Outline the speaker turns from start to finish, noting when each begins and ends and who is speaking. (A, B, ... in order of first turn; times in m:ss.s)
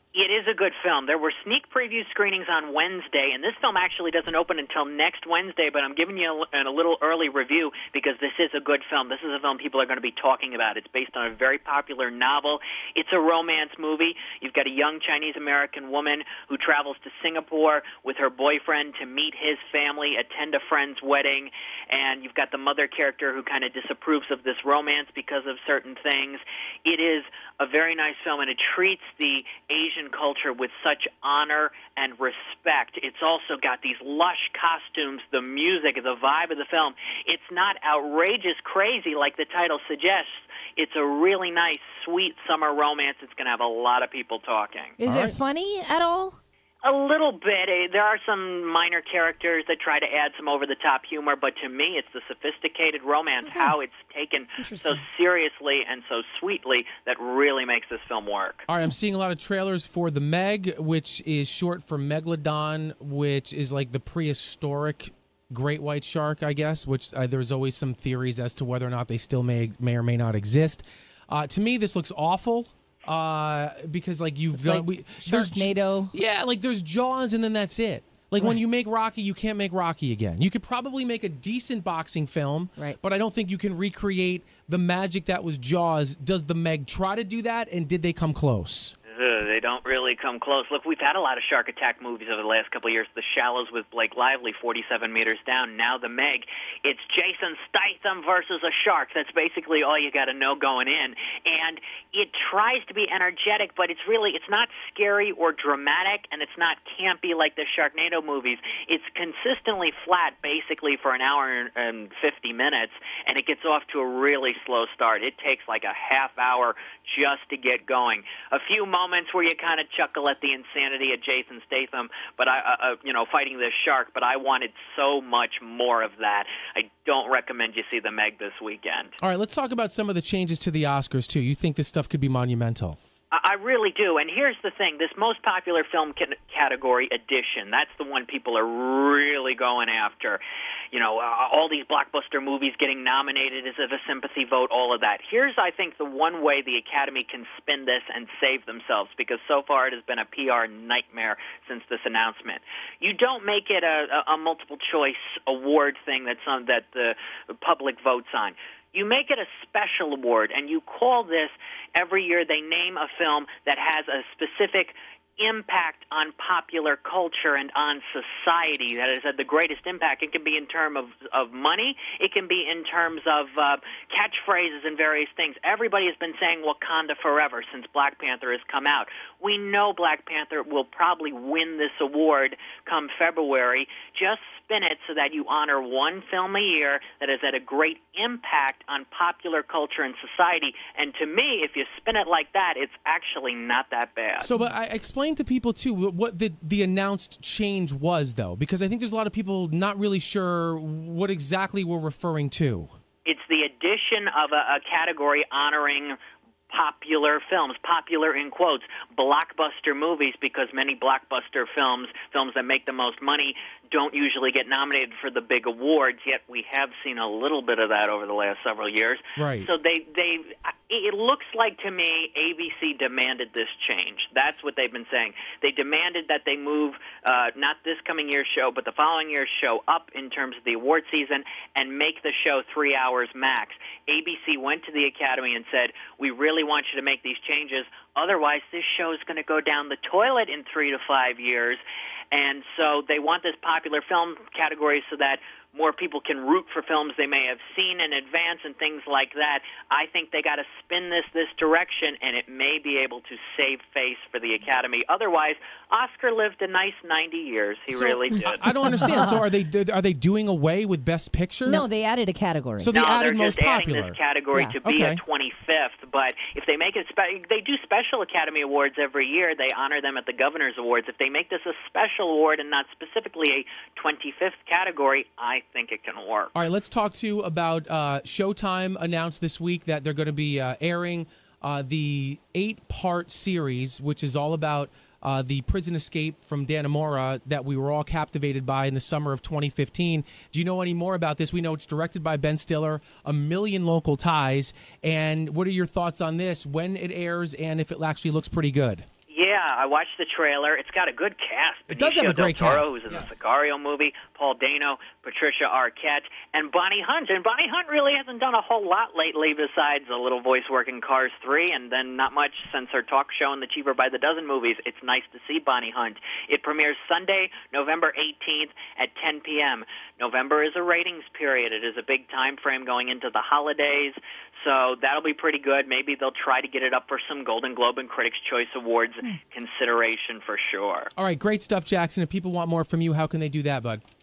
0:00.1-0:45.0 A
0:45.0-0:46.4 B
0:45.0-0:45.4 C
0:46.8-0:58.6 A
0:53.4-0:53.7 B
0:54.6-0:55.0 B
0:58.7-1:28.9 C
1:14.5-1:16.1 B
1:29.1-2:09.2 A
2:09.2-2:13.0 C
2:13.3-2:20.4 A
2:20.9-3:14.5 A
3:14.4-3:22.9 C
3:23.2-3:26.2 A
3:26.7-4:01.8 A
3:39.4-3:39.7 C
4:02.3-4:18.7 A
4:17.9-4:21.8 C
4:21.6-4:22.9 B
4:22.8-4:24.2 C
4:22.9-4:36.5 A
4:24.8-4:25.2 C
4:36.5-4:59.0 C
4:59.3-5:31.1 A
5:01.9-5:03.3 C
5:31.2-5:34.0 C